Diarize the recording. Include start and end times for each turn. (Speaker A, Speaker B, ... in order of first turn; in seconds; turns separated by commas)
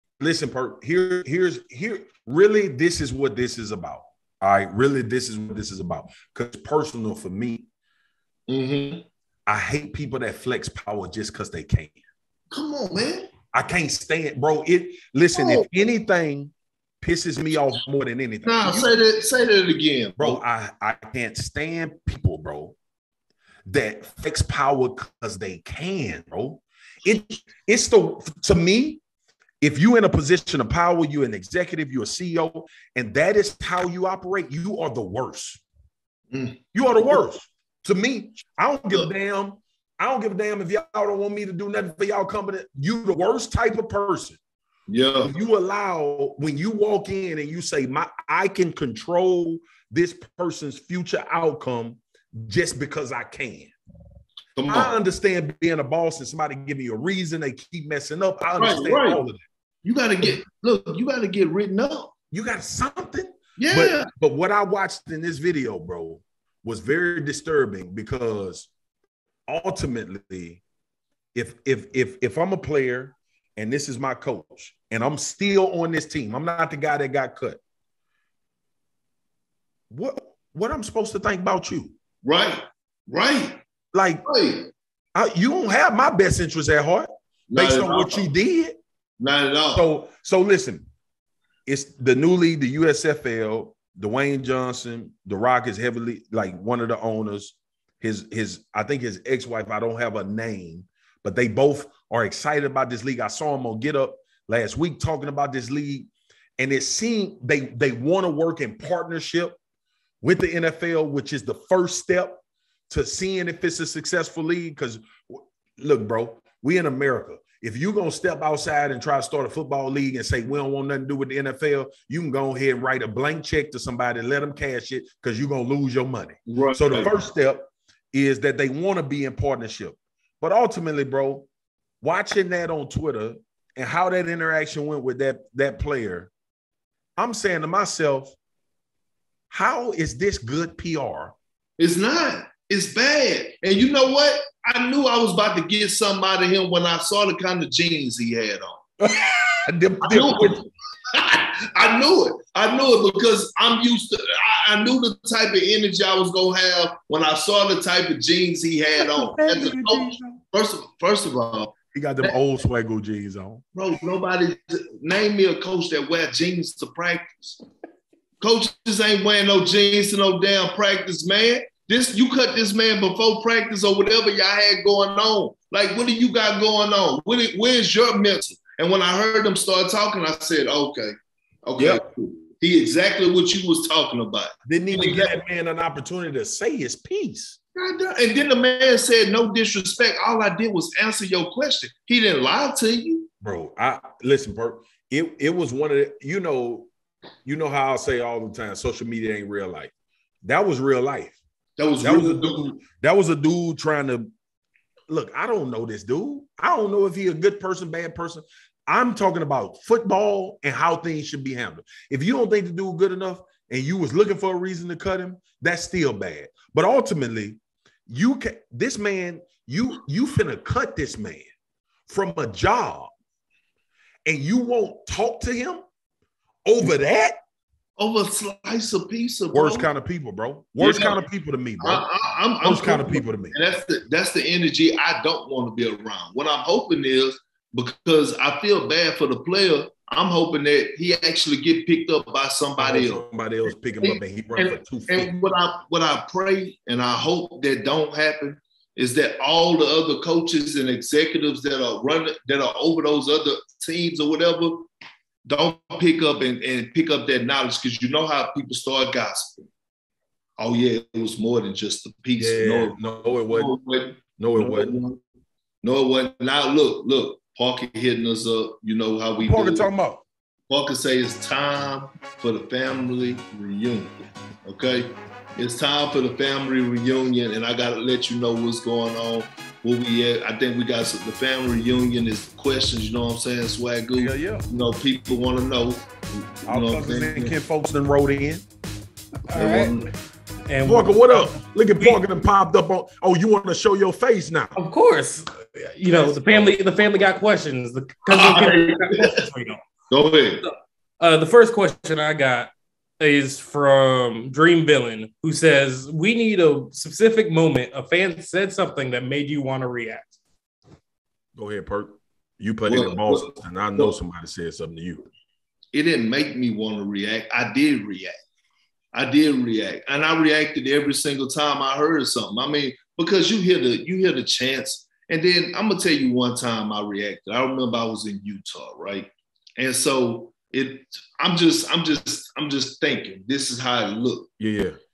Speaker A: 0.2-7.7, Speaker B: 8.5-9.1, Speaker A: 9.5-12.0, Speaker B: 12.5-13.3, Speaker A: 13.5-19.0, Speaker B: 15.3-15.7, Speaker B: 18.4-20.4, Speaker A: 20.2-22.8, Speaker A: 23.7-29.0, Speaker A: 29.6-35.6, Speaker B: 36.3-37.2, Speaker A: 36.7-44.4, Speaker B: 44.9-45.3, Speaker A: 45.2-53.7, Speaker B: 54.6-55.0, Speaker A: 54.7-59.4, Speaker B: 58.6-59.2, Speaker B: 59.8-62.1, Speaker A: 62.3-68.7, Speaker B: 63.6-64.1, Speaker A: 69.5-70.6, Speaker A: 71.3-77.6, Speaker A: 79.9-81.9, Speaker B: 82.2-83.6, Speaker A: 83.9-84.2, Speaker B: 84.2-84.7, Speaker A: 85.2-88.8, Speaker B: 87.5-88.2, Speaker B: 89.2-89.8, Speaker A: 89.7-90.9, Speaker A: 91.7-109.6, Speaker A: 110.2-131.5, Speaker B: 126.5-127.1, Speaker A: 132.0-136.3, Speaker A: 137.2-138.3, Speaker A: 139.5-141.3, Speaker B: 141.8-148.8, Speaker A: 149.0-150.6, Speaker B: 150.0-162.3, Speaker A: 159.0-160.4, Speaker A: 161.9-163.6, Speaker B: 163.8-167.6, Speaker B: 168.4-185.3, Speaker A: 181.8-182.0, Speaker A: 184.7-187.6, Speaker B: 187.8-193.3, Speaker A: 193.4-196.9, Speaker A: 197.4-199.9, Speaker A: 200.4-201.4, Speaker B: 201.8-202.7, Speaker A: 202.0-204.3, Speaker A: 205.1-221.5, Speaker A: 222.1-223.1, Speaker A: 224.3-225.8, Speaker A: 226.7-227.4, Speaker B: 228.0-229.9, Speaker A: 229.5-232.1, Speaker B: 230.8-231.2, Speaker B: 231.8-243.2, Speaker A: 232.6-233.6, Speaker A: 242.8-245.3, Speaker B: 244.0-254.9, Speaker B: 255.4-259.6, Speaker B: 260.6-265.2, Speaker A: 262.4-263.8, Speaker A: 264.4-265.0, Speaker B: 265.8-269.9, Speaker A: 269.4-270.2, Speaker B: 270.7-286.1, Speaker A: 284.1-284.7, Speaker A: 286.3-288.6, Speaker B: 286.7-287.6, Speaker C: 289.5-289.9, Speaker B: 289.5-290.1, Speaker C: 290.7-292.2, Speaker A: 290.8-294.8, Speaker C: 294.8-299.8, Speaker A: 295.8-297.3, Speaker B: 298.3-299.5, Speaker B: 300.1-300.6, Speaker C: 300.6-310.3, Speaker A: 311.6-315.3, Speaker B: 312.9-314.1, Speaker B: 315.9-318.4, Speaker B: 319.1-334.5, Speaker A: 334.6-335.0